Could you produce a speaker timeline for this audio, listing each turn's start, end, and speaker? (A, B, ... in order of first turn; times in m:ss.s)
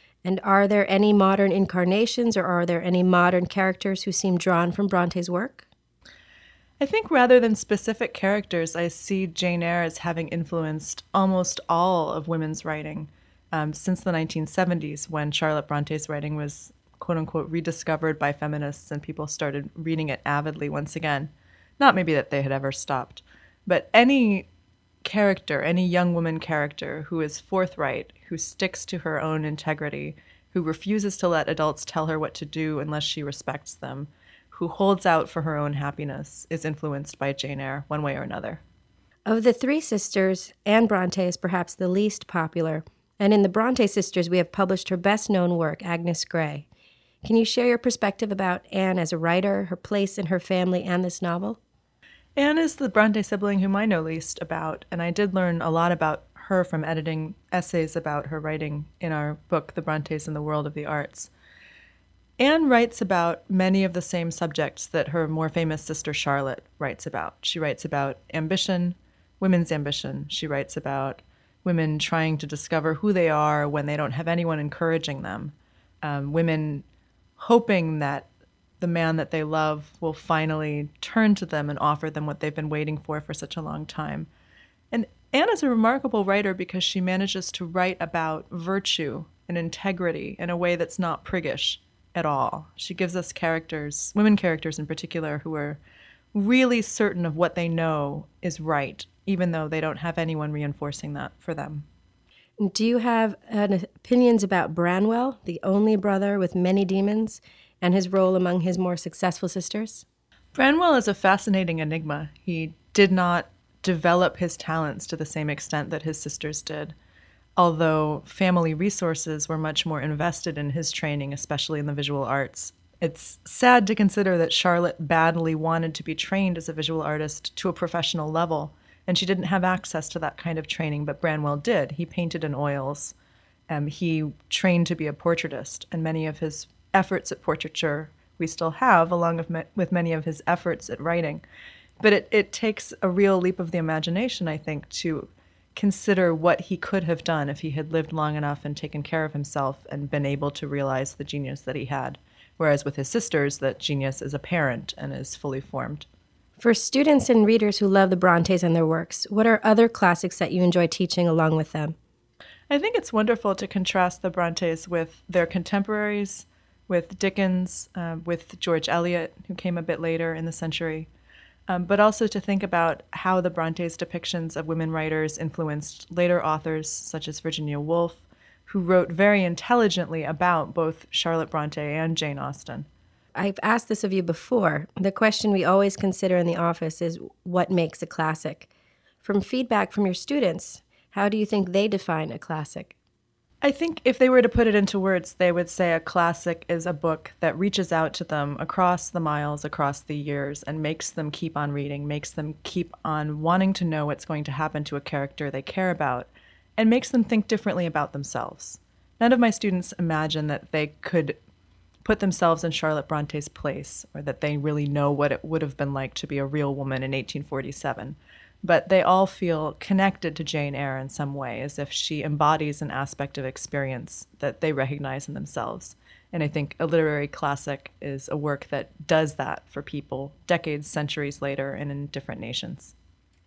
0:00.2-0:05.7 A
0:06.8-0:24.5 B
0:25.0-0:38.6 B
0:39.3-0:46.7 A
0:47.2-0:51.6 A
0:52.4-1:01.3 B
1:02.4-1:16.8 B
1:17.4-1:18.3 B
1:18.8-1:24.3 B
1:24.9-1:35.8 B
1:36.3-1:41.8 B
1:42.6-1:50.0 A
1:50.5-1:56.9 B
1:57.6-2:13.1 B
2:13.7-2:21.4 B
2:22.0-2:36.1 B
2:36.6-2:42.0 A
2:42.7-2:51.1 B
2:51.7-3:02.9 B
3:03.4-3:08.7 A
3:09.2-3:12.9 A
3:13.6-3:31.4 B
3:32.0-3:52.9 B